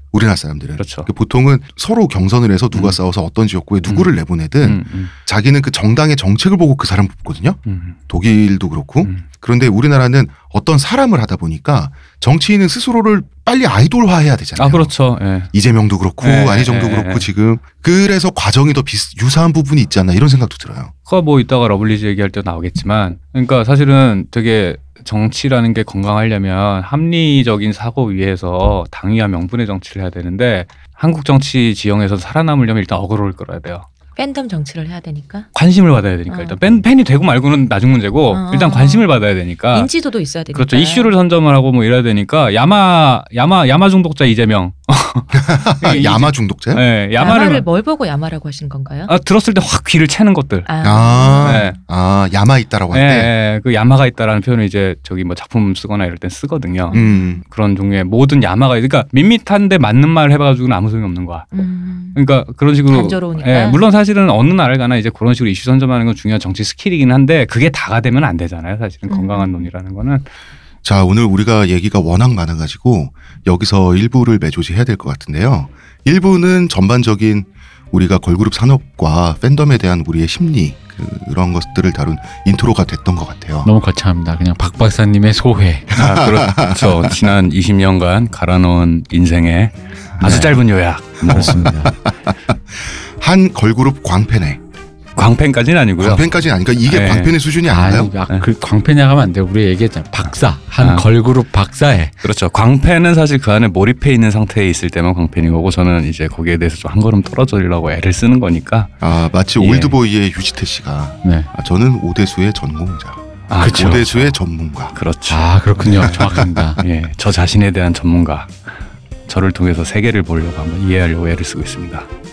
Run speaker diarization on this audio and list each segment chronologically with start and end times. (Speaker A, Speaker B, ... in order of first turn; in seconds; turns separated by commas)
Speaker A: 0.1-14.9, Speaker B: 0.8-1.1, Speaker B: 4.6-5.1, Speaker B: 7.7-8.0, Speaker B: 14.6-15.5, Speaker A: 15.5-20.9, Speaker B: 16.2-17.3, Speaker B: 21.1-33.9, Speaker C: 34.1-35.5, Speaker B: 35.5-39.9, Speaker C: 36.3-36.5, Speaker C: 38.3-39.0, Speaker C: 39.7-41.1, Speaker B: 40.5-47.6, Speaker A: 45.3-46.8, Speaker C: 47.2-49.1, Speaker B: 49.1-50.7, Speaker C: 50.6-51.8, Speaker A: 50.8-53.3, Speaker B: 51.3-51.8, Speaker B: 52.9-61.5, Speaker C: 56.9-57.3, Speaker A: 56.9-57.4, Speaker C: 61.5-62.2, Speaker B: 62.1-70.2, Speaker C: 62.9-63.8, Speaker C: 69.1-69.7, Speaker A: 70.8-83.7, Speaker D: 83.6-85.9, Speaker A: 85.9-87.3, Speaker B: 85.9-91.8, Speaker D: 90.2-90.6, Speaker A: 91.2-94.6, Speaker D: 91.2-91.9, Speaker B: 95.2-96.3, Speaker A: 96.0-98.1, Speaker B: 96.9-97.3, Speaker D: 97.7-102.1, Speaker B: 100.8-101.0, Speaker B: 102.2-108.9, Speaker A: 109.0-114.9, Speaker B: 109.6-110.0, Speaker B: 113.5-114.4, Speaker D: 113.5-114.0, Speaker B: 114.9-118.5, Speaker D: 115.3-116.8, Speaker A: 115.8-116.8, Speaker B: 119.3-122.1